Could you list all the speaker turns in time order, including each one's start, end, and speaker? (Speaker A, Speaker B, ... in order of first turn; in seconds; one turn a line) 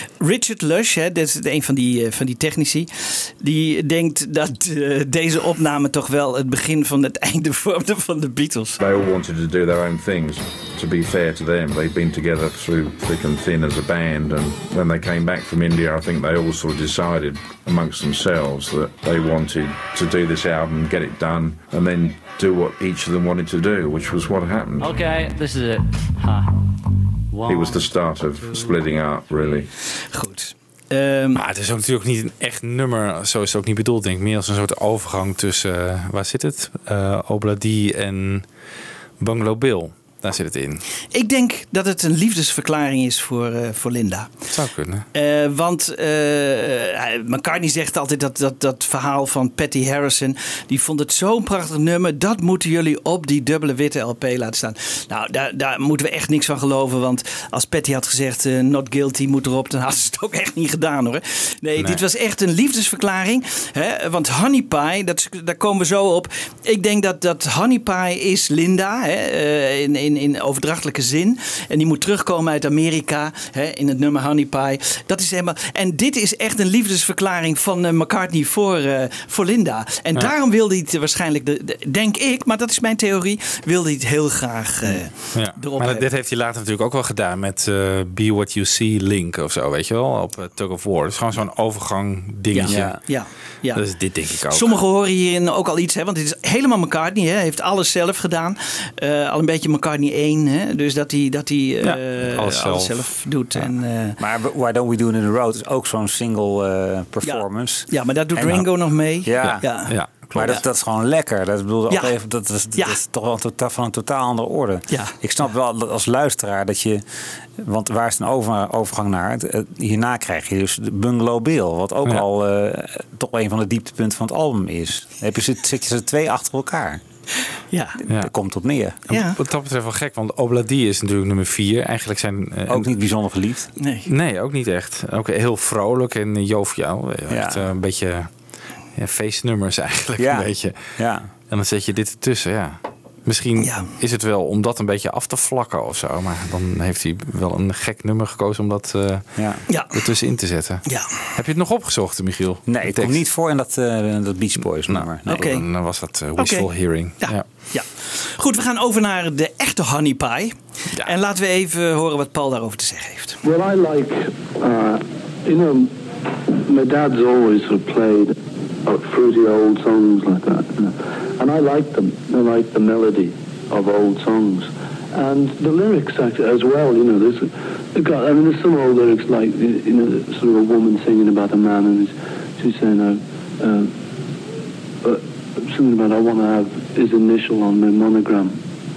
Speaker A: 0.2-8.8
Speaker B: 8.8-24.9
Speaker C: 24.8-26.5
Speaker C: 27.3-29.6
Speaker B: 27.4-29.7
Speaker A: 30.1-31.4
Speaker D: 31.3-38.4
Speaker D: 39.2-40.8
Speaker A: 41.1-44.3
Speaker D: 44.5-45.0
Speaker A: 45.1-86.1
Speaker D: 85.3-93.1
Speaker A: 92.5-93.8
Speaker E: 92.7-93.0
Speaker D: 93.7-94.8
Speaker A: 94.5-104.2
Speaker D: 101.8-103.1
Speaker E: 104.2-108.7
Speaker A: 107.2-110.6
Speaker E: 109.2-117.0
Speaker D: 109.4-110.5
Speaker A: 111.9-112.1
Speaker E: 117.6-127.0
Speaker A: 127.7-128.0
Speaker E: 128.1-128.9
Speaker A: 129.1-129.4
Speaker D: 129.1-132.9
Speaker E: 132.7-133.7
Speaker A: 133.8-134.1
Speaker D: 134.1-138.3
Speaker E: 137.3-137.7
Speaker D: 138.9-141.0
Speaker E: 140.2-141.3
Speaker D: 141.5-150.8
Speaker A: 143.6-143.9
Speaker E: 149.3-149.6
Speaker A: 149.7-150.0
Speaker A: 150.8-151.1
Speaker D: 151.3-153.2
Speaker E: 152.7-155.6
Speaker D: 154.9-157.4
Speaker A: 155.2-155.6
Speaker A: 156.3-163.4
Speaker F: 163.4-165.9
Speaker F: 166.5-183.9
Speaker F: 185.0-188.6